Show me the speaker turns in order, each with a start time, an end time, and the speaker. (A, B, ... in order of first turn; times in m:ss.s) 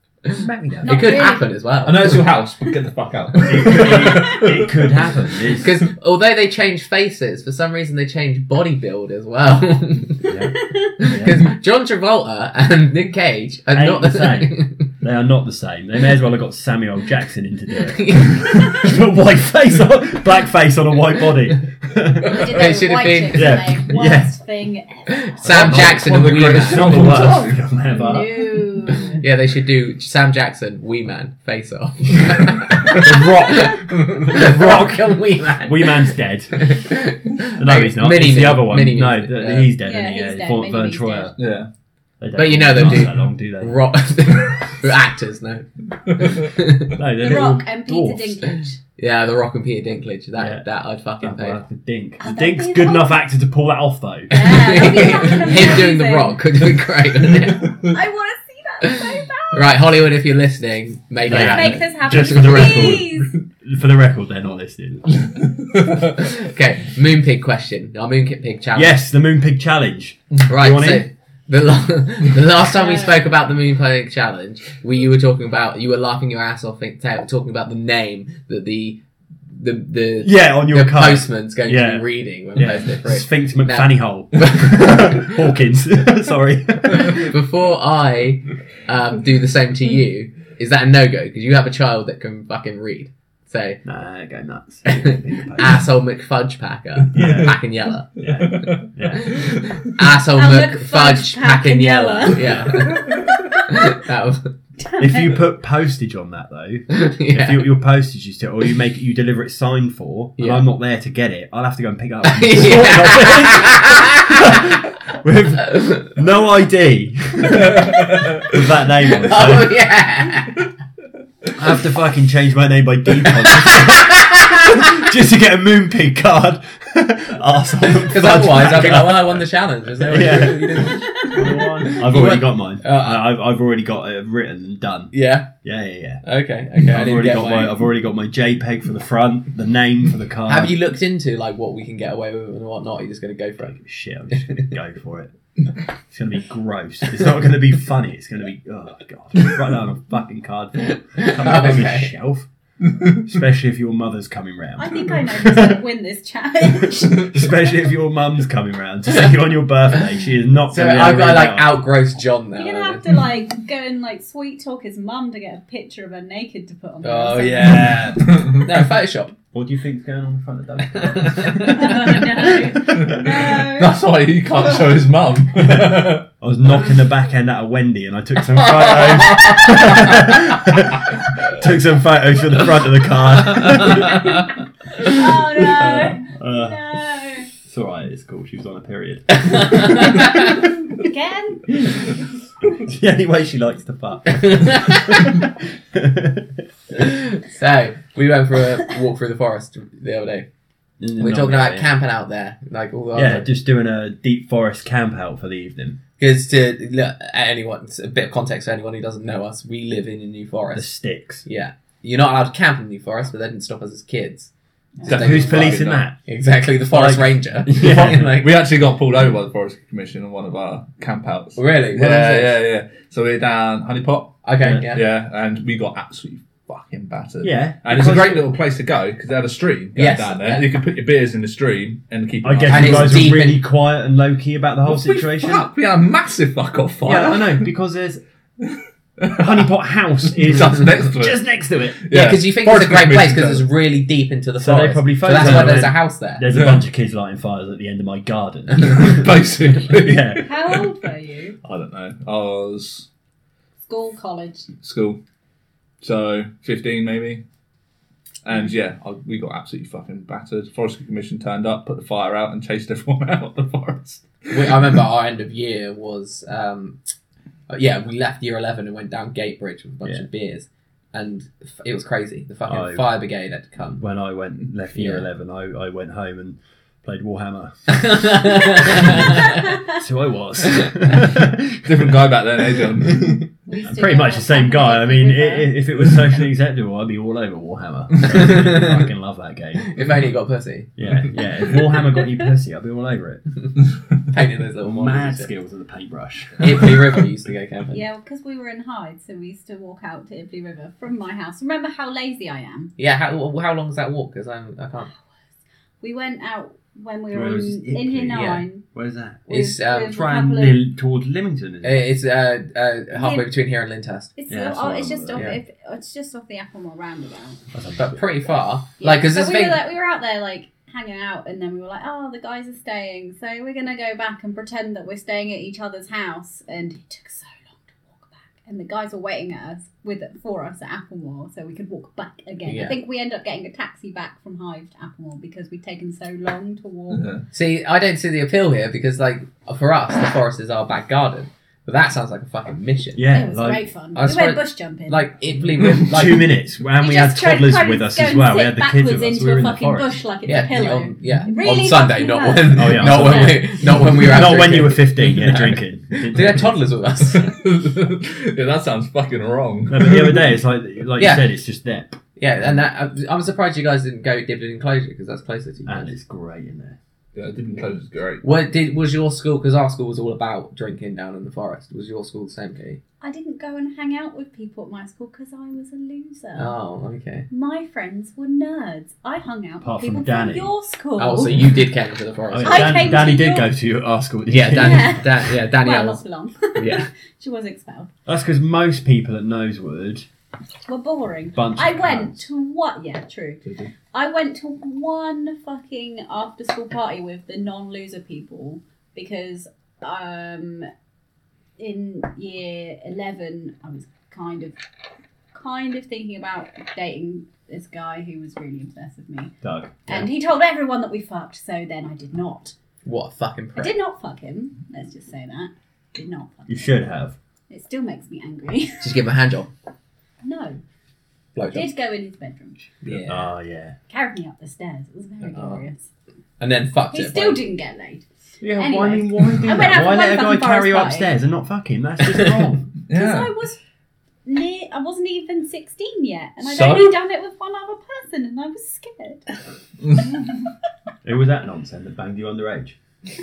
0:00.3-0:01.3 A
0:00.8-0:01.5 B
0:00.8-0:02.2 C
0:01.8-0:05.0 D
0:03.4-0:05.8 A
0:04.0-0:04.5 B
0:05.6-0:10.3 C
0:10.2-0:11.4 A
0:11.0-0:14.8 C
0:13.7-0:22.7 A
0:17.9-0:18.9 C
0:22.2-0:25.4 B
0:22.3-0:23.8 C
0:23.3-0:24.3 A
0:25.1-0:27.2 C
0:25.4-0:28.7 A
0:25.5-0:27.6 D
0:27.9-0:29.2 B
0:29.2-0:39.7 C
0:32.9-0:36.7 A
0:37.6-0:41.4 A
0:39.8-0:41.3 B
0:41.4-0:41.7 D
0:42.2-0:43.9 A
0:42.4-0:47.0 C
0:47.0-0:48.4 A
0:47.2-0:48.8 B
0:49.0-0:51.6 C
0:50.4-0:50.6 A
0:51.2-0:55.2 A
0:52.2-0:53.2 B
0:54.3-0:56.4 B
0:54.3-0:57.7 C
0:57.8-0:59.8 B
0:58.8-1:02.8 C
1:01.2-1:05.1 A
1:01.3-1:03.4 B
1:05.2-1:06.1 D
1:06.2-1:09.0 C
1:08.7-1:11.1 A
1:10.4-1:25.4 C
1:12.7-1:13.2 B
1:20.2-1:27.3 A
1:26.9-1:33.8 C
1:33.8-1:35.8 A
1:34.9-1:38.2 C
1:37.1-1:37.6 A
1:37.1-1:37.6 D
1:38.2-1:39.4 A
1:38.2-1:39.8 D
1:39.1-1:44.5 C
1:40.3-1:42.5 B
1:42.4-1:42.8 A
1:44.8-1:45.4 B
1:45.0-1:59.7 A
1:46.9-1:47.7 C
1:50.4-1:50.7 C
1:52.2-1:54.7 C
1:55.7-1:56.1 C
1:57.6-1:58.5 D
1:59.1-2:00.6 C
2:01.6-2:09.4 A
2:03.4-2:04.8 C
2:08.0-2:13.2 C
2:10.0-2:16.2 A
2:10.8-2:11.7 B
2:15.1-2:15.5 C
2:16.2-2:17.8 C
2:16.7-2:20.8 A
2:20.4-2:23.8 C
2:23.6-2:25.3 A
2:24.4-2:24.7 C
2:26.1-2:32.5 A
2:31.1-2:32.1 C
2:33.1-2:35.8 A
2:34.8-2:37.5 B
2:36.7-2:41.8 A
2:40.7-2:43.0 C
2:42.6-2:48.0 B
2:47.0-2:49.3 C
2:47.6-2:48.6 A
2:48.3-2:48.6 D
2:49.5-2:53.4 A
2:50.9-2:52.2 C
2:51.7-2:54.0 B
2:53.0-2:56.3 D
2:55.7-3:04.5 A
2:58.6-3:00.0 D
3:03.6-3:04.2 C
3:05.0-3:07.5 B
3:05.7-3:06.8 A
3:07.6-3:10.4 A
3:09.5-3:10.3 C
3:09.8-3:11.9 B
3:12.7-3:16.6 A
3:14.6-3:15.2 C
3:17.0-3:20.5 C
3:21.0-3:21.9 A
3:21.2-3:23.5 C
3:23.1-3:26.0 A
3:26.2-3:30.9 C
3:30.7-3:31.4 A
3:31.4-3:34.5 C
3:35.0-3:35.4 B
3:35.0-3:36.0 D
3:35.0-3:36.2 A
3:35.1-3:35.6 C
3:36.3-3:38.5 C
3:36.9-3:38.3 A
3:37.8-3:53.4 D
3:41.6-3:42.6 C
3:44.4-3:45.0 C
3:47.4-3:48.5 A
3:50.0-3:50.6 C
3:52.4-3:55.7 A
3:52.7-3:53.6 C
3:54.9-3:57.7 D
3:57.0-3:58.2 A
3:58.7-3:59.5 D
3:59.3-4:02.0 A
4:00.3-4:01.4 D
4:02.0-4:03.7 D
4:02.1-4:06.4 C
4:04.6-4:09.4 A
4:05.4-4:05.7 D
4:06.5-4:06.8 D
4:08.8-4:10.9 D
4:09.9-4:10.5 A
4:10.4-4:11.6 B
4:11.6-4:13.1 D
4:13.9-4:14.7 B
4:14.8-4:15.2 D
4:16.0-4:17.4 D
4:18.4-4:25.0 D
4:24.5-4:27.0 C
4:27.7-4:34.0 C
4:32.7-4:33.1 A
4:34.0-4:42.1 A
4:34.9-4:35.3 C
4:37.9-4:39.5 C
4:41.8-4:43.4 D
4:43.7-4:45.8 B
4:43.8-4:49.9 A
4:48.3-4:49.0 C
4:49.8-4:50.9 C
4:51.0-4:53.4 A
4:54.3-4:55.5 C
4:54.8-4:57.0 A
4:56.6-4:58.0 C
4:57.9-5:02.9 B
5:03.0-5:05.1 C
5:06.0-5:08.8 B
5:07.3-5:09.5 A
5:08.3-5:08.6 C
5:09.5-5:10.8 B
5:09.5-5:10.2 C
5:10.0-5:12.0 A
5:11.8-5:14.3 C
5:13.1-5:13.4 B
5:14.4-5:17.6 B
5:14.5-5:15.6 A
5:15.3-5:15.6 C
5:17.7-5:18.2 A
5:18.0-5:19.8 C
5:19.0-5:37.3 B
5:32.7-5:33.0 C
5:37.1-5:37.4 D
5:37.5-5:43.3 C
5:43.1-5:43.9 A
5:43.3-5:45.3 B
5:44.1-5:46.5 C
5:45.8-5:50.2 A
5:47.0-5:53.7 B
5:50.4-5:57.5 C
5:52.7-5:56.8 A
5:57.3-6:00.4 D
5:59.9-6:02.8 A
6:01.2-6:01.4 C
6:02.4-6:06.1 C
6:05.9-6:07.0 A
6:07.4-6:08.4 D
6:08.4-6:13.0 C
6:13.2-6:16.7 B
6:16.6-6:17.4 C
6:17.5-6:21.7 B
6:19.8-6:20.7 A
6:21.2-6:23.3 C
6:22.5-6:25.4 A
6:22.6-6:23.7 B
6:24.5-6:26.2 C
6:24.7-6:28.1 B
6:26.7-6:27.0 C
6:28.3-6:30.3 A
6:30.9-6:40.9 B
6:31.6-6:32.4 A
6:33.6-6:33.9 D
6:41.8-6:44.8 B
6:45.5-6:49.5 B
6:49.6-6:50.3 A
6:50.1-6:52.7 B
6:53.0-6:54.0 C
6:53.8-6:57.0 B
6:56.7-6:57.4 A
6:57.7-6:59.2 B
6:59.0-6:59.7 C
7:00.4-7:00.8 B
7:01.6-7:01.9 C
7:01.7-7:02.9 B
7:03.0-7:03.4 C
7:03.3-7:04.0 A
7:04.1-7:06.0 B
7:05.4-7:05.8 C
7:06.6-7:07.6 C
7:07.1-7:11.3 B
7:08.6-7:12.9 A
7:13.1-7:13.5 D
7:13.1-7:13.8 B
7:14.4-7:19.4 B
7:16.6-7:17.2 D
7:21.2-7:23.0 A